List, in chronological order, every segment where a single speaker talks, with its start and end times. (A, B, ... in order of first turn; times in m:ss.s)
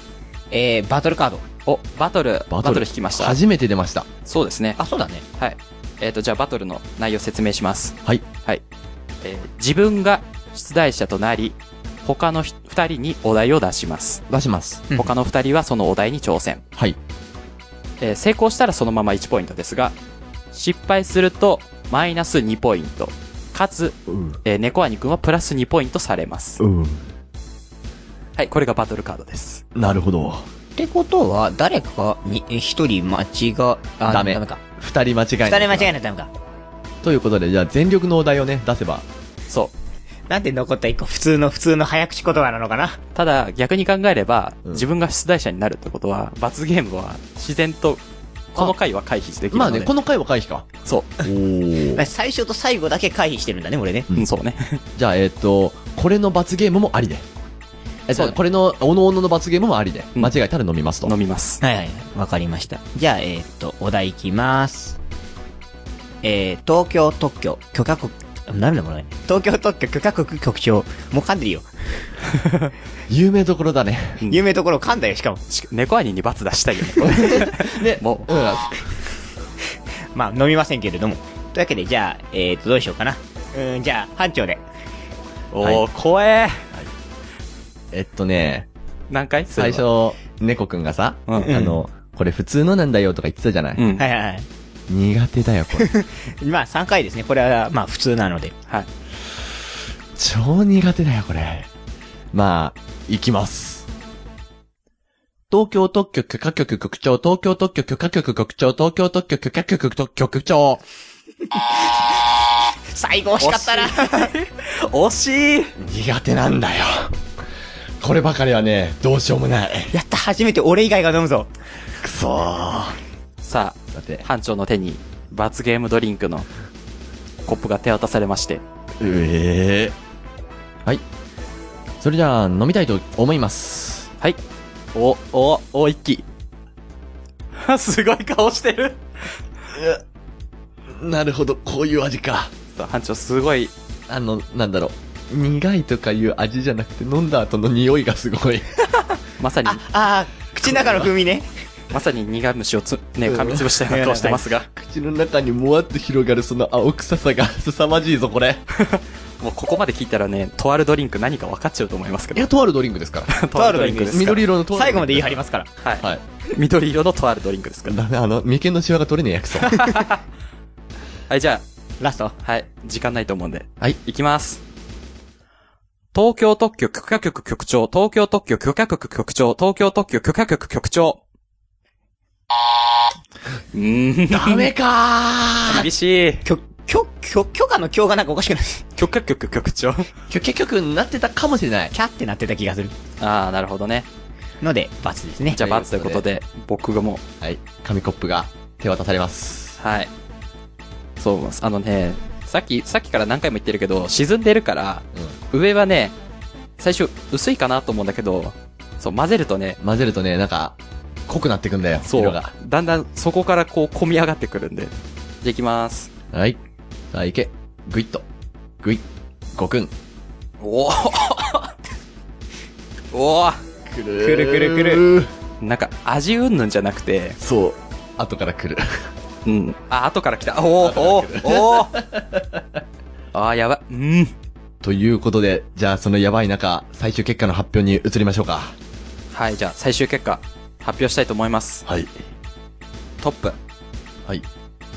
0:00.5-0:01.4 A
0:01.7-0:03.4 B
0:02.5-0:04.1 C
0:04.3-0:04.8 B
0:04.8-0:05.2 A
0:05.4-0:08.6 B
0:09.2-0:14.2 B
0:14.3-0:14.9 C
0:15.0-0:16.6 B
0:18.0-0:20.0 B
0:20.5-0:26.6 B
0:24.1-0:24.4 C
0:26.6-0:27.1 C
0:28.4-0:29.6 B
0:29.8-0:30.5 C
0:30.8-0:34.6 A
0:34.1-0:35.9 C
0:35.4-0:36.3 A
0:37.0-0:39.1 C
0:40.3-0:43.0 A
0:43.2-0:48.0 B
0:48.5-0:49.9 B
0:49.5-0:52.0 C
0:50.9-0:51.1 B
0:51.9-0:54.1 A
0:54.1-0:54.8 B
0:55.0-0:57.3 C
0:58.1-1:01.1 C
1:01.0-1:01.6 B
1:01.6-1:05.0 A
1:06.2-1:12.1 A
1:13.1-1:14.2 C
1:14.3-1:15.4 A
1:15.5-1:18.3 B
1:17.0-1:18.9 C
1:20.1-1:24.6 A
1:25.5-1:26.7 B
1:27.9-1:28.7 C
1:29.1-1:29.8 B
1:29.6-1:33.8 C
1:31.3-1:31.5 B
1:31.4-1:31.8 A
1:33.8-1:34.0 B
1:34.0-1:34.5 A
1:34.9-1:35.9 C
1:35.8-1:38.6 A
1:40.2-1:41.7 C
1:42.3-1:43.9 C
1:45.5-1:50.8 C
1:52.9-1:54.3 A
1:53.4-1:55.8 B
1:55.8-1:57.2 C
1:58.0-1:59.9 C
1:59.9-2:01.5 A
2:02.0-2:03.0 C
2:03.4-2:06.5 B
2:03.9-2:04.2 C
2:07.5-2:08.6 B
2:09.0-2:10.0 C
2:12.0-2:14.1 C
2:15.0-2:16.2 B
2:17.6-2:19.0 B
2:19.7-2:20.0 C
2:20.9-2:22.5 C
2:22.8-2:23.7 B
2:24.1-2:28.7 C
2:29.4-2:29.8 B
2:29.6-2:31.5 A
2:30.7-2:31.1 B
2:31.9-2:34.7 B
2:33.3-2:33.7 C
2:33.9-2:34.5 A
2:34.7-2:38.6 C
2:38.7-2:42.5 B
2:42.4-2:43.3 C
2:43.3-2:44.4 B
2:43.5-2:45.7 A
2:44.1-2:45.4 C
2:45.8-2:48.0 B
2:47.8-2:49.8 C
2:49.7-2:50.2 B
2:51.3-2:51.6 B
2:52.0-2:52.4 A
2:52.4-2:54.6 B
2:56.1-3:01.2 B
3:03.7-3:04.7 B
3:04.3-3:05.9 C
3:05.6-3:06.4 B
3:06.4-3:08.9 A
3:09.0-3:10.1 B
3:10.3-3:11.9 C
3:11.9-3:13.0 A
3:13.2-3:14.1 B
3:14.6-3:15.6 A
3:15.5-3:17.2 B
3:15.6-3:16.2 C
3:17.4-3:19.8 C
3:19.8-3:20.1 B
3:21.2-3:26.2 B
3:26.8-3:29.8 B
3:29.8-3:32.5 C
3:32.1-3:36.1 B
3:36.3-3:36.6 C
3:37.1-3:38.3 C
3:38.8-3:39.9 C
3:40.6-3:41.7 B
3:43.1-3:43.6 B
3:43.9-3:45.3 C
3:44.2-3:45.0 A
3:45.6-3:47.4 B
3:47.4-3:49.1 C
3:49.4-3:52.0 B
3:50.8-3:52.6 C
3:53.3-3:54.3 B
3:54.8-3:58.8 C
3:59.3-4:01.8 B
4:01.9-4:02.1 C
4:03.2-4:03.6 B